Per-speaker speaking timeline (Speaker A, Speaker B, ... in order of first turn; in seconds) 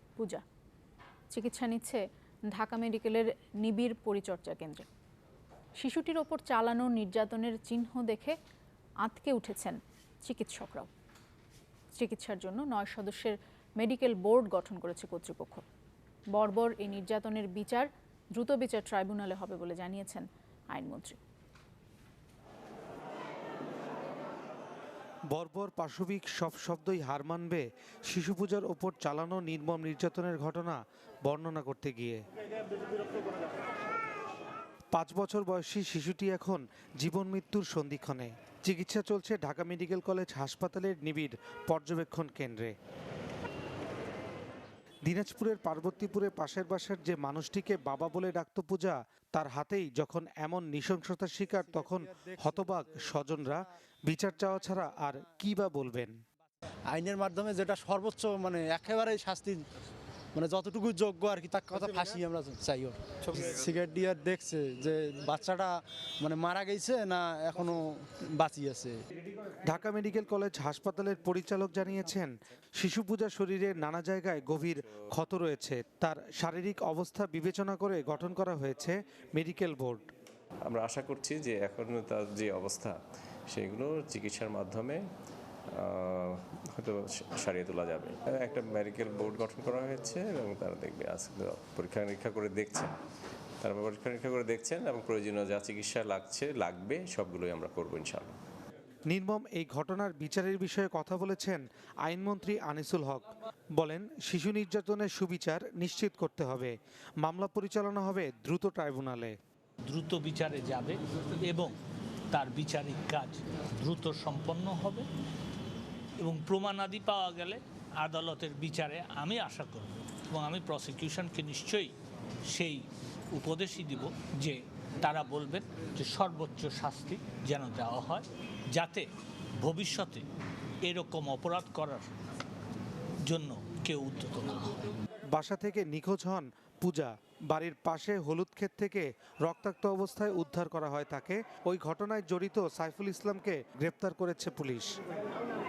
Speaker A: 0.2-0.4, 1.3-4.8, 5.8-8.3, 9.0-10.9, 11.9-15.6, 16.3-21.2
Speaker B: 25.3-32.2, 34.9-42.7, 45.0-56.1, 69.7-80.0, 99.1-109.3, 135.3-145.0
Speaker C: 51.6-53.1, 56.9-59.6, 60.3-69.0
Speaker D: 80.7-83.0, 83.5-85.0, 85.7-92.9, 93.6-98.3
Speaker E: 109.8-111.7, 112.3-115.0, 116.2-121.9, 122.5-129.1, 129.6-130.2, 130.8-132.1, 133.2-134.8